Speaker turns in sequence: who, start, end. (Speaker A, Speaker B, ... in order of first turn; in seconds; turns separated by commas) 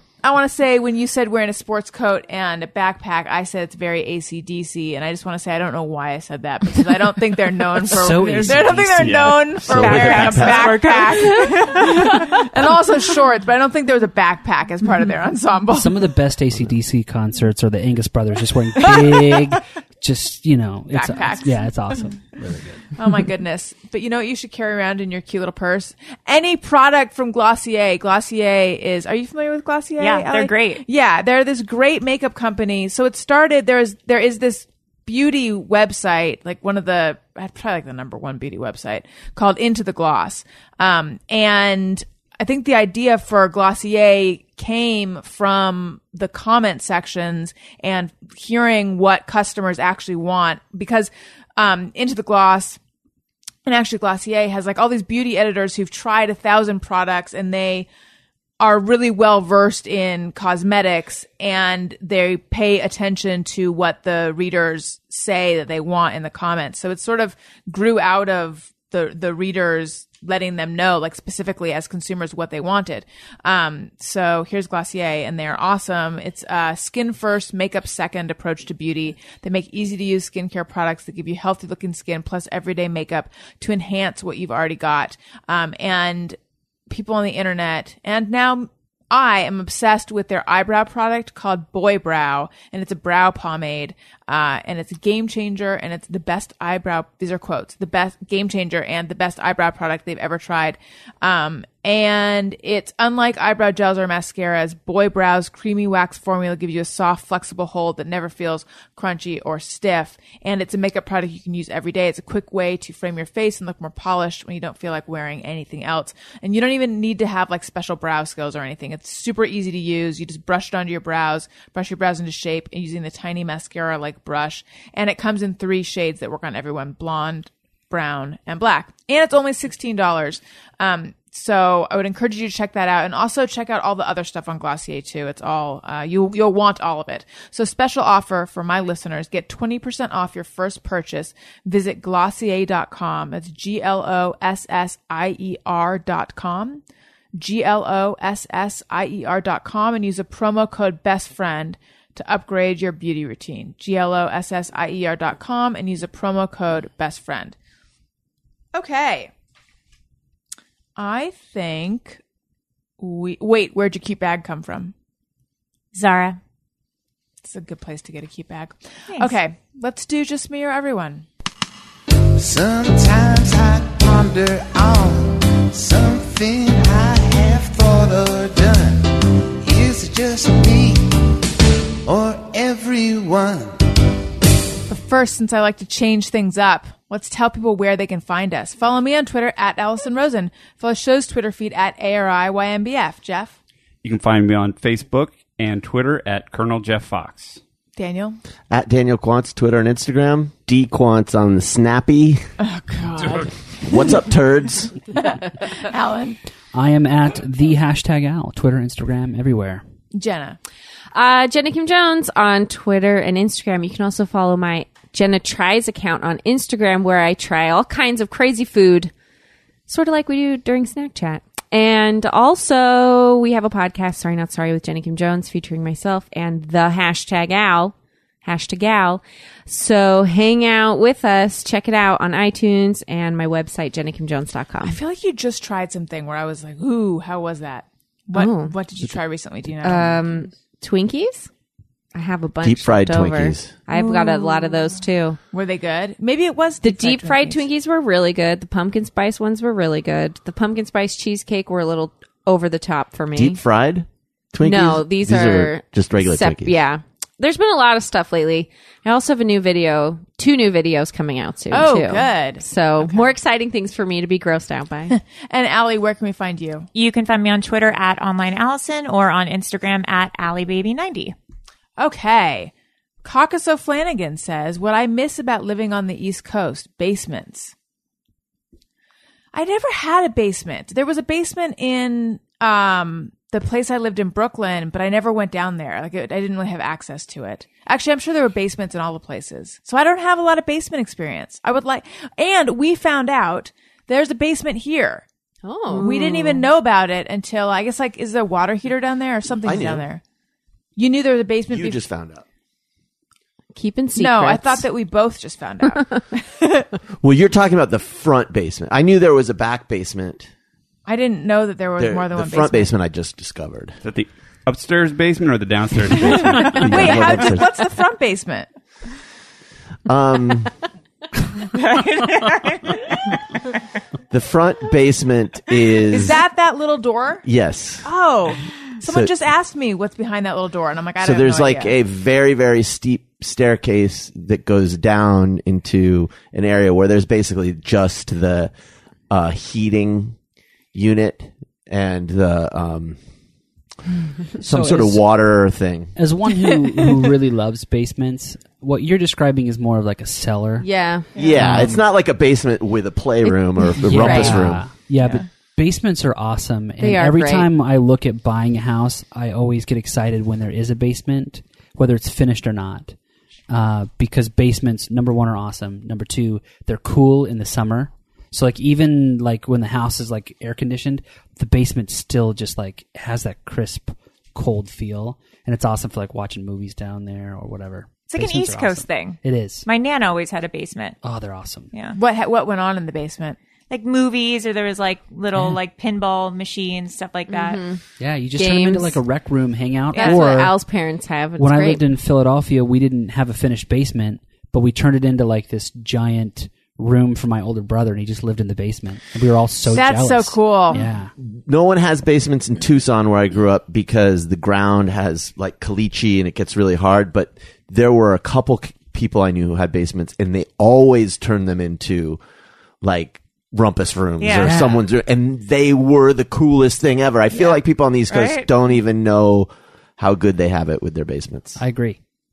Speaker A: 0.2-16.1, Speaker B: 7.9-9.8, Speaker C: 8.9-10.9, Speaker D: 9.6-10.8, Speaker E: 10.0-12.0, Speaker B: 15.7-22.9, Speaker A: 18.9-19.4, Speaker A: 20.9-21.7, Speaker A: 22.9-52.8, Speaker E: 30.0-30.8, Speaker A: 53.6-57.9, Speaker A: 58.6-86.4, Speaker A: 86.9-146.8, Speaker A: 147.4-157.6, Speaker A: 158.7-159.3, Speaker A: 161.0-162.2, Speaker A: 163.0-164.9, Speaker E: 165.9-166.4, Speaker A: 167.4-171.2, Speaker F: 172.3-181.2, Speaker F: 182.0-183.8, Speaker A: 184.9-193.5, Speaker C: 194.0-197.6, Speaker A: 197.9-198.4, Speaker D: 198.7-202.4, Speaker A: 202.6-204.2, Speaker D: 203.8-204.9, Speaker A: 205.2-206.4, Speaker B: 206.7-209.8, Speaker A: 210.1-210.6, Speaker G: 211.1-219.1, Speaker G: 219.9-235.0, Speaker A: 234.8-240.2, Speaker G: 238.3-238.8, Speaker G: 239.8-241.5, Speaker G: 242.1-245.4, Speaker D: 242.6-243.7, Speaker A: 243.9-244.9, Speaker A: 245.5-247.6, Speaker G: 246.8-253.6, Speaker D: 253.3-256.8, Speaker G: 254.6-265.1, Speaker A: 261.7-263.3, Speaker A: 265.1-266.9, Speaker E: 266.9-271.3, Speaker A: 272.0-272.7, Speaker A: 273.2-277.7, Speaker A: 279.5-295.2, Speaker G: 295.6-296.6, Speaker A: 295.9-300.2, Speaker D: 299.6-300.1, Speaker A: 300.9-302.0, Speaker D: 301.7-302.4, Speaker G: 303.7-304.8, Speaker A: 304.1-306.9, Speaker D: 307.2-310.5, Speaker A: 311.1-312.9, Speaker D: 312.0-314.0, Speaker C: 314.0-317.2, Speaker D: 316.5-317.7, Speaker A: 316.7-318.7, Speaker D: 320.1-320.7, Speaker E: 321.6-323.1, Speaker D: 324.3-326.4, Speaker A: 326.1-327.4, Speaker D: 327.4-328.1, Speaker A: 328.0-331.9, Speaker D: 329.0-329.3, Speaker D: 331.2-338.7, Speaker D: 339.3-340.4, Speaker D: 340.9-343.2, Speaker B: 344.6-345.2, Speaker D: 344.6-346.1, Speaker B: 346.1-350.9, Speaker G: 350.8-351.3, Speaker D: 351.4-354.9, Speaker A: 351.4-351.8, Speaker B: 351.6-352.0, Speaker B: 354.0-363.1, Speaker G: 354.1-354.6, Speaker G: 357.0-357.7, Speaker B: 363.7-379.9, Speaker E: 378.3-381.2, Speaker B: 381.2-381.9, Speaker A: 382.1-383.6, Speaker E: 383.9-387.8, Speaker G: 387.5-388.0, Speaker B: 388.2-390.7, Speaker G: 388.6-389.2, Speaker E: 390.1-390.4, Speaker G: 390.1-392.1, Speaker B: 391.6-401.3, Speaker A: 399.9-401.0, Speaker D: 401.4-412.4, Speaker D: 413.0-421.8, Speaker E: 414.4-414.8, Speaker B: 414.6-415.0, Speaker E: 418.3-418.7, Speaker B: 421.8-422.2